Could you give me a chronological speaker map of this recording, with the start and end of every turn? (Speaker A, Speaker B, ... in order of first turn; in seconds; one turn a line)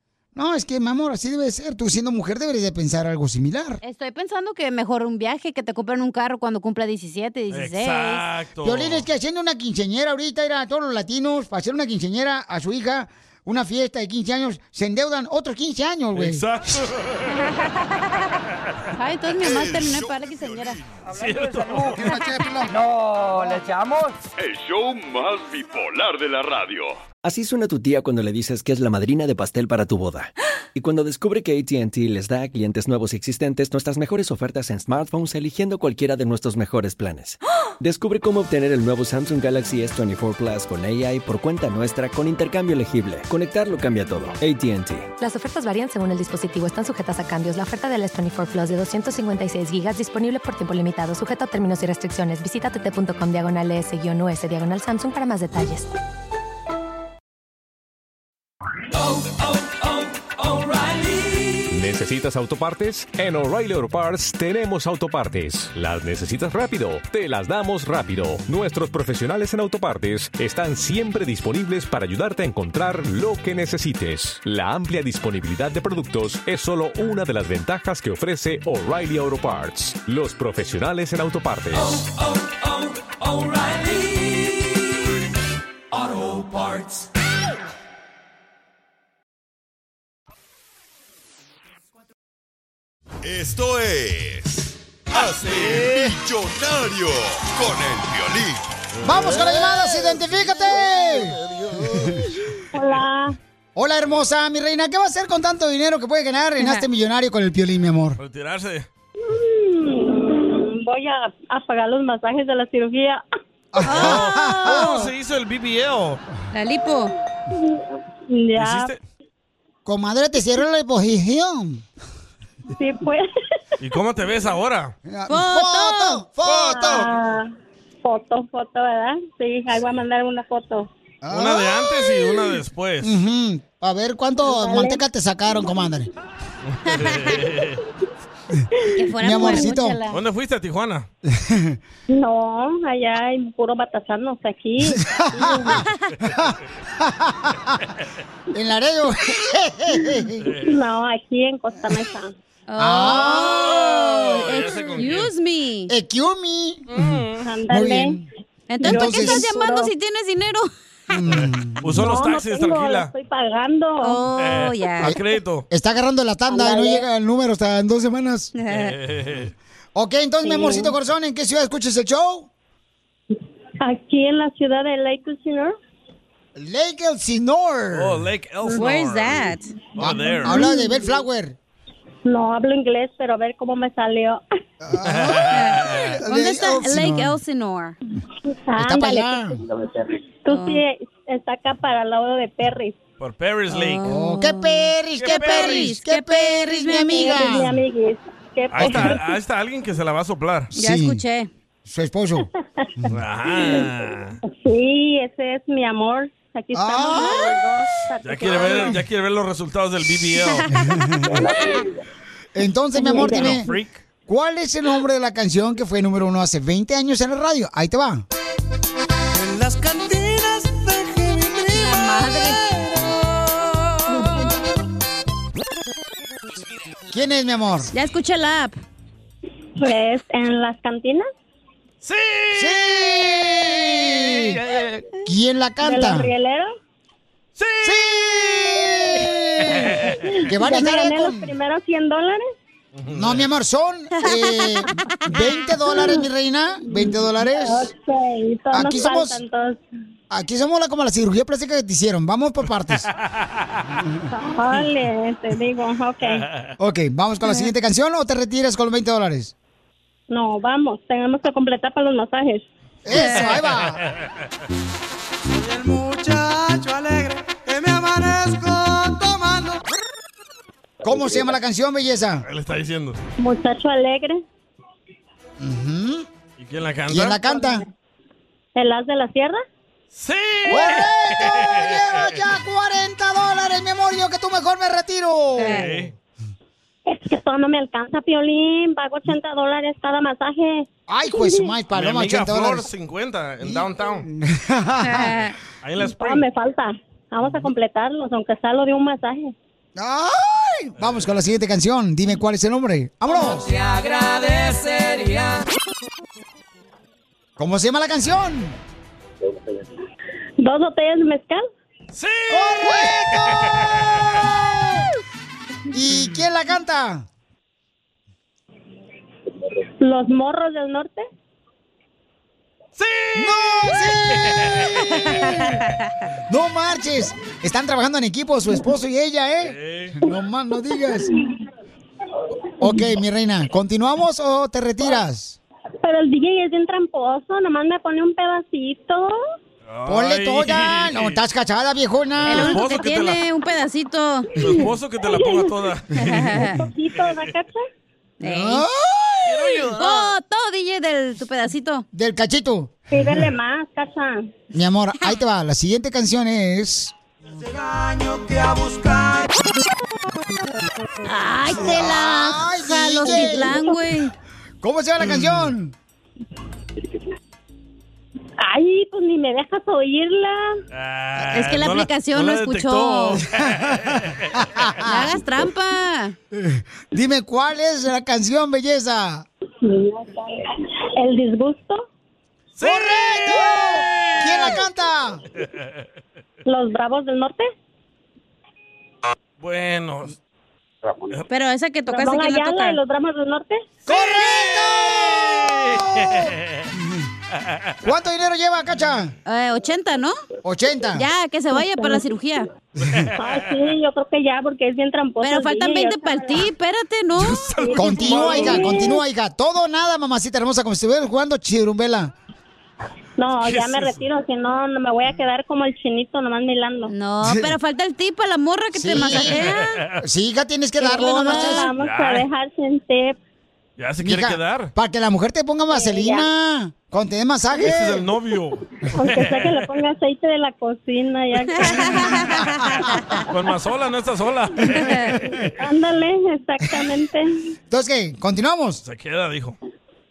Speaker A: 0.3-3.8
Speaker B: 3.8-8.2
Speaker C: 7.5-9.1
Speaker A: 8.6-16.4
Speaker C: 16.1-17.4
Speaker B: 18.9-20.8
Speaker D: 19.4-20.8
Speaker C: 21.1-22.1
Speaker E: 21.2-22.0
Speaker A: 21.9-22.7
Speaker E: 22.6-24.2
Speaker D: 24.4-27.0
Speaker F: 27.2-45.1
Speaker G: 45.2-55.9
Speaker H: 61.7-81.9
Speaker E: 81.8-84.6
Speaker E: 85.9-87.0
Speaker D: 93.2-98.6
Speaker C: 95.2-96.2
Speaker A: 99.0-102.2
Speaker I: 102.7-103.4
Speaker A: 103.7-108.2
Speaker C: 108.2-108.9
Speaker I: 109.2-113.2
Speaker A: 113.7-115.1
Speaker B: 113.8-115.0
Speaker C: 113.9-116.2
Speaker B: 116.5-117.1
Speaker I: 117.5-118.9
Speaker C: 118.6-119.0
Speaker A: 119.8-121.8
Speaker I: 122.7-123.3
Speaker C: 123.8-124.9
Speaker A: 125.0-127.1
Speaker B: 125.3-126.2
Speaker C: 126.4-127.1
Speaker I: 126.6-127.5
Speaker I: 128.0-130.9
Speaker A: 131.2-132.0
Speaker C: 131.3-133.2
Speaker A: 133.0-136.1
Speaker I: 134.4-135.0
Speaker C: 136.7-137.8
Speaker B: 136.9-137.2
Speaker B: 138.9-140.2
Speaker A: 139.2-140.0
Speaker C: 140.1-141.1
Speaker A: 141.2-141.8
Speaker I: 142.1-145.8
Speaker A: 144.8-147.8
Speaker A: 148.5-150.5
Speaker C: 150.4-150.8
Speaker I: 150.6-152.3
Speaker B: 152.7-155.9
Speaker A: 152.8-153.9
Speaker C: 153.3-155.3
Speaker A: 155.9-158.2
Speaker C: 156.9-157.4
Speaker I: 157.4-158.2
Speaker B: 158.7-160.7
Speaker A: 158.8-159.4
Speaker I: 158.8-159.9
Speaker A: 161.1-162.1
Speaker C: 161.8-163.1
Speaker I: 162.0-164.2
Speaker B: 164.0-165.1
Speaker C: 164.4-165.7
Speaker A: 165.7-168.5
Speaker I: 166.5-167.0
Speaker B: 168.6-168.9
Speaker C: 168.7-169.5
Speaker A: 169.9-172.5
Speaker I: 170.4-170.9
Speaker I: 173.8-175.7
Speaker A: 176.5-178.2
Speaker C: 177.9-180.6
Speaker B: 178.7-179.7
Speaker A: 180.0-181.6
Speaker I: 180.5-181.0
Speaker I: 182.2-184.4
Speaker A: 184.8-187.4
Speaker C: 185.1-186.0
Speaker B: 185.5-187.9
Speaker I: 188.7-189.5
Speaker A: 188.8-189.6
Speaker I: 190.4-193.0
Speaker B: 190.5-190.8
Speaker C: 193.2-194.0
Speaker B: 193.7-197.6
Speaker A: 194.0-197.8
Speaker C: 195.2-195.9
Speaker I: 197.0-199.2
Speaker C: 198.7-200.7
Speaker A: 198.8-199.2
Speaker A: 200.7-201.2
Speaker B: 200.7-201.5
Speaker A: 201.8-202.5
Speaker C: 203.1-204.4
Speaker I: 203.6-203.9
Speaker I: 204.4-208.9
Speaker A: 206.7-207.6
Speaker C: 208.2-210.7
Speaker A: 208.7-208.9
Speaker A: 210.7-211.5
Speaker A: 212.5-213.7
Speaker I: 212.9-213.6
Speaker C: 213.1-214.0
Speaker A: 214.2-218.2
Speaker E: 219.3-223.2
Speaker B: 221.7-222.6
Speaker A: 227.1-227.9
Speaker B: 227.9-228.8
Speaker I: 229.8-231.3
Speaker C: 232.0-235.1
Speaker A: 232.5-234.6
Speaker A: 235.2-236.3
Speaker I: 235.8-236.7
Speaker C: 237.6-240.4
Speaker A: 237.8-241.5
Speaker I: 240.4-242.5
Speaker C: 242.9-243.5
Speaker A: 243.1-247.9
Speaker B: 244.3-244.8
Speaker I: 245.9-246.2
Speaker I: 246.9-249.8
Speaker A: 248.7-249.4
Speaker A: 250.3-253.1
Speaker C: 253.0-253.9
Speaker A: 254.0-254.3
Speaker I: 254.3-256.4
Speaker C: 256.3-256.7
Speaker A: 256.8-259.5
Speaker I: 260.3-262.6
Speaker A: 263.0-264.0
Speaker C: 263.2-264.1
Speaker E: 265.5-269.8
Speaker A: 271.0-272.4
Speaker C: 272.4-273.2
Speaker I: 273.4-274.4
Speaker A: 275.6-276.3
Speaker C: 276.6-277.4
Speaker A: 277.1-277.8
Speaker I: 278.8-279.6
Speaker C: 280.1-282.4
Speaker A: 280.7-286.1
Speaker B: 285.6-285.9
Speaker C: 285.6-286.1
Speaker I: 287.1-291.7
Speaker A: 291.1-292.9
Speaker C: 291.9-294.2
Speaker A: 293.6-295.4
Speaker B: 295.0-295.5
Speaker C: 295.8-296.4
Speaker I: 296.0-299.5
Speaker A: 299.9-303.7
Speaker E: 303.3-305.6
Speaker A: 307.6-308.8
Speaker I: 310.6-311.7
Speaker C: 312.1-314.4
Speaker A: 312.5-315.1
Speaker A: 315.9-317.2
Speaker I: 320.0-321.2
Speaker C: 323.0-325.7
Speaker A: 323.3-325.5
Speaker B: 325.2-325.9
Speaker A: 326.5-331.3
Speaker C: 329.6-330.2
Speaker A: 332.8-335.6
Speaker I: 336.0-339.4
Speaker C: 339.9-341.4
Speaker A: 340.1-342.8
Speaker C: 342.4-343.4
Speaker B: 342.4-344.5
Speaker C: 344.6-347.5
Speaker I: 345.3-345.7
Speaker B: 346.2-346.8
Speaker I: 346.8-347.8
Speaker B: 348.4-348.9
Speaker A: 348.4-349.8
Speaker C: 349.4-350.3
Speaker B: 350.0-352.0
Speaker A: 352.1-352.9
Speaker I: 353.1-354.5
Speaker A: 354.7-357.1
Speaker E: 357.5-359.6
Speaker B: 361.2-364.3
Speaker A: 361.7-363.9
Speaker A: 364.8-365.9
Speaker C: 365.2-365.7
Speaker I: 368.6-370.7
Speaker C: 370.9-374.7
Speaker B: 371.5-373.4
Speaker A: 373.6-375.4
Speaker B: 375.1-376.3
Speaker A: 376.5-379.5
Speaker I: 379.8-382.0
Speaker C: 382.8-384.8
Speaker A: 382.8-385.4
Speaker C: 385.6-386.0
Speaker I: 386.6-387.7
Speaker C: 389.6-390.4
Speaker B: 391.5-393.0
Speaker I: 392.1-393.8
Speaker A: 394.1-397.3
Speaker C: 394.1-396.9
Speaker A: 398.0-399.3
Speaker B: 399.4-400.4
Speaker A: 400.6-401.2
Speaker B: 401.1-402.7
Speaker A: 403.0-403.3
Speaker C: 403.1-403.8
Speaker I: 403.4-406.7
Speaker B: 405.4-408.8
Speaker C: 407.4-409.0
Speaker I: 407.8-409.1
Speaker A: 407.9-412.3
Speaker I: 413.4-417.1
Speaker C: 413.6-414.2
Speaker B: 417.1-419.9
Speaker A: 417.4-417.7
Speaker A: 418.9-421.9
Speaker C: 419.4-420.2
Speaker I: 421.0-423.4
Speaker B: 421.0-421.9
Speaker C: 421.9-422.5
Speaker C: 424.0-424.9
Speaker A: 424.2-428.2
Speaker I: 425.9-426.5
Speaker C: 427.8-429.9
Speaker I: 429.1-432.4
Speaker B: 431.7-433.1
Speaker A: 431.8-433.4
Speaker C: 433.5-435.7
Speaker B: 435.0-435.3
Speaker I: 435.8-437.5
Speaker A: 437.9-439.0
Speaker C: 439.0-439.8